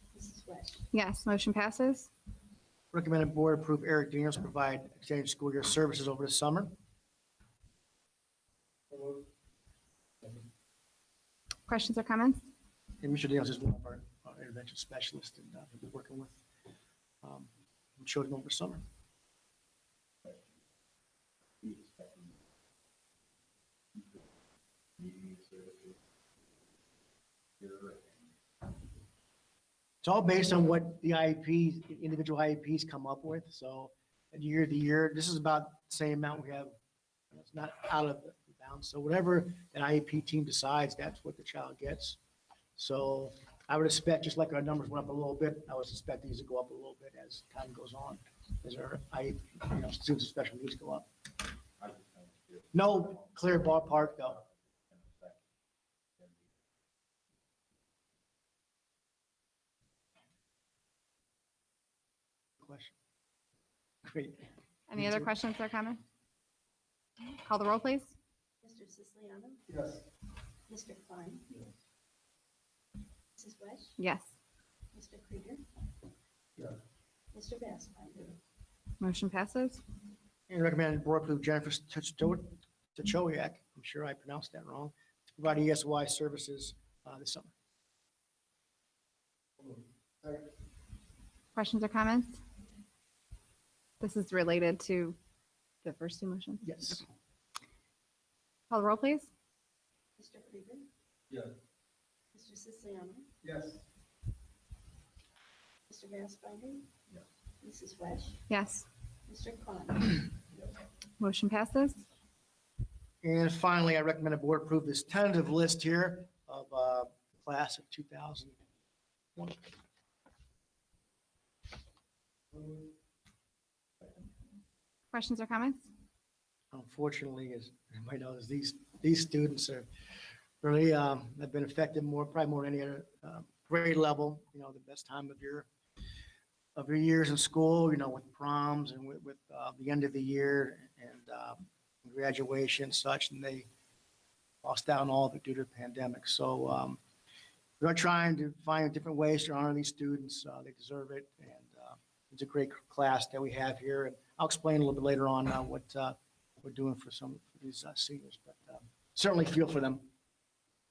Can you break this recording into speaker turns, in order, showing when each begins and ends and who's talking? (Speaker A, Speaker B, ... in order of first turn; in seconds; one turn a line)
Speaker A: 0.1-0.8
Speaker B: 0.9-2.1
Speaker C: 2.9-6.7
Speaker D: 8.9-9.3
Speaker B: 11.7-12.4
Speaker C: 13.0-16.4
Speaker C: 17.2-18.8
Speaker D: 21.6-22.3
Speaker D: 25.0-26.0
Speaker D: 27.6-28.1
Speaker C: 30.0-36.7
Speaker C: 37.3-42.2
Speaker C: 42.8-51.1
Speaker D: 51.8-52.3
Speaker C: 52.7-54.4
Speaker D: 55.0-55.4
Speaker C: 62.6-63.0
Speaker C: 64.0-65.3
Speaker B: 64.9-66.0
Speaker B: 67.2-68.1
Speaker A: 68.6-69.6
Speaker D: 69.7-70.0
Speaker A: 70.7-71.5
Speaker A: 73.4-74.0
Speaker B: 74.0-74.3
Speaker A: 74.9-75.6
Speaker A: 77.3-78.3
Speaker B: 79.0-79.8
Speaker C: 80.5-87.5
Speaker D: 89.6-90.5
Speaker B: 91.5-92.4
Speaker B: 94.0-95.2
Speaker B: 95.8-97.0
Speaker C: 96.6-97.0
Speaker B: 98.7-99.3
Speaker A: 100.2-100.9
Speaker A: 102.3-103.3
Speaker D: 103.4-103.8
Speaker A: 105.9-106.9
Speaker A: 107.6-108.4
Speaker B: 108.5-108.9
Speaker A: 109.3-110.3
Speaker B: 111.2-112.0
Speaker C: 113.2-118.6
Speaker C: 119.4-119.7
Speaker B: 125.1-125.9
Speaker C: 126.7-129.9
Speaker C: 130.6-135.7
Speaker C: 136.8-143.7
Speaker C: 144.6-147.0
Speaker C: 147.8-160.1